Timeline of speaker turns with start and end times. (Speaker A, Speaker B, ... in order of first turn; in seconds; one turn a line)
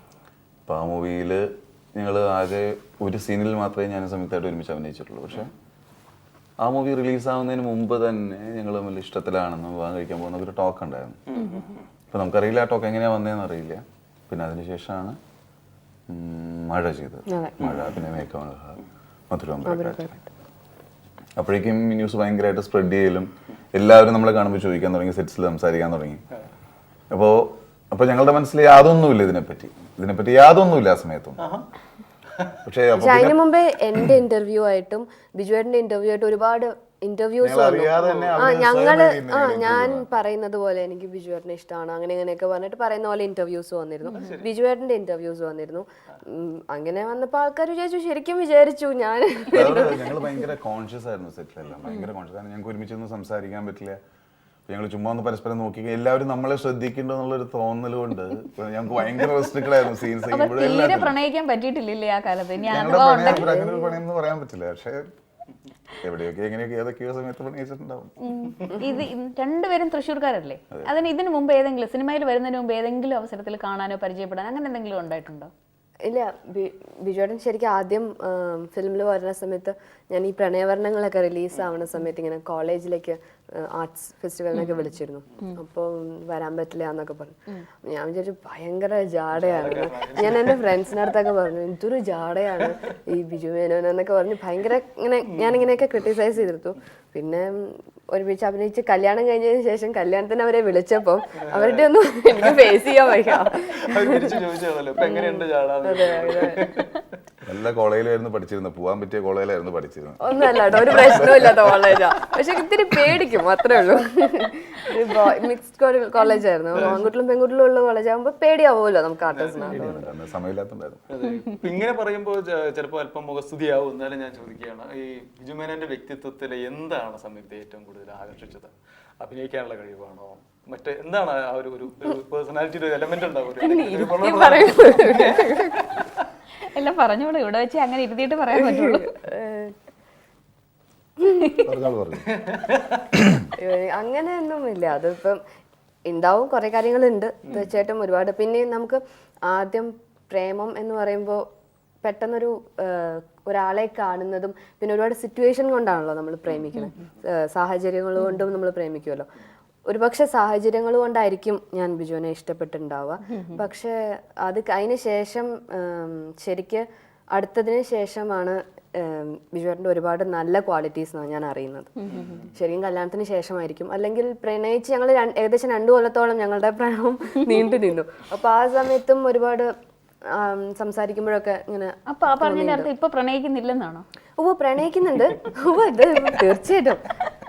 Speaker A: 0.7-5.5
Speaker A: 6.6-11.2
Speaker B: 11.3-11.8
Speaker A: 12.1-15.2
Speaker A: 16.1-20.1
Speaker C: 17.3-17.7
Speaker C: 19.6-20.3
Speaker A: 21.4-26.2
Speaker A: 27.1-31.4
Speaker B: 31.4-31.7
Speaker B: 32.3-32.5
Speaker A: 32.6-33.4
Speaker C: 33.0-50.4
Speaker A: 37.4-40.1
Speaker B: 38.0-38.3
Speaker B: 44.1-44.5
Speaker A: 49.5-54.0
Speaker A: 54.7-61.2
Speaker D: 60.3-63.5
Speaker A: 62.7-65.1
Speaker C: 63.2-64.0
Speaker A: 66.0-68.1
Speaker D: 68.2-75.5
Speaker C: 76.0-104.3
Speaker B: 89.3-90.7
Speaker B: 101.5-101.8
Speaker B: 103.3-107.2
Speaker C: 105.0-106.7
Speaker A: 107.4-111.7
Speaker C: 110.2-120.1
Speaker B: 116.7-117.0
Speaker B: 119.3-120.0
Speaker A: 119.7-121.0
Speaker B: 121.1-136.2
Speaker C: 133.6-135.9
Speaker D: 136.6-139.1
Speaker C: 138.5-139.7
Speaker A: 141.6-142.3
Speaker B: 142.3-143.0
Speaker A: 143.1-143.4
Speaker C: 143.6-145.4
Speaker C: 146.1-151.4
Speaker C: 152.0-159.3
Speaker C: 159.9-171.9
Speaker D: 163.3-163.6
Speaker D: 172.0-172.4
Speaker B: 172.1-172.4
Speaker C: 172.5-179.7
Speaker C: 180.3-182.9
Speaker D: 182.1-184.0
Speaker C: 184.4-187.1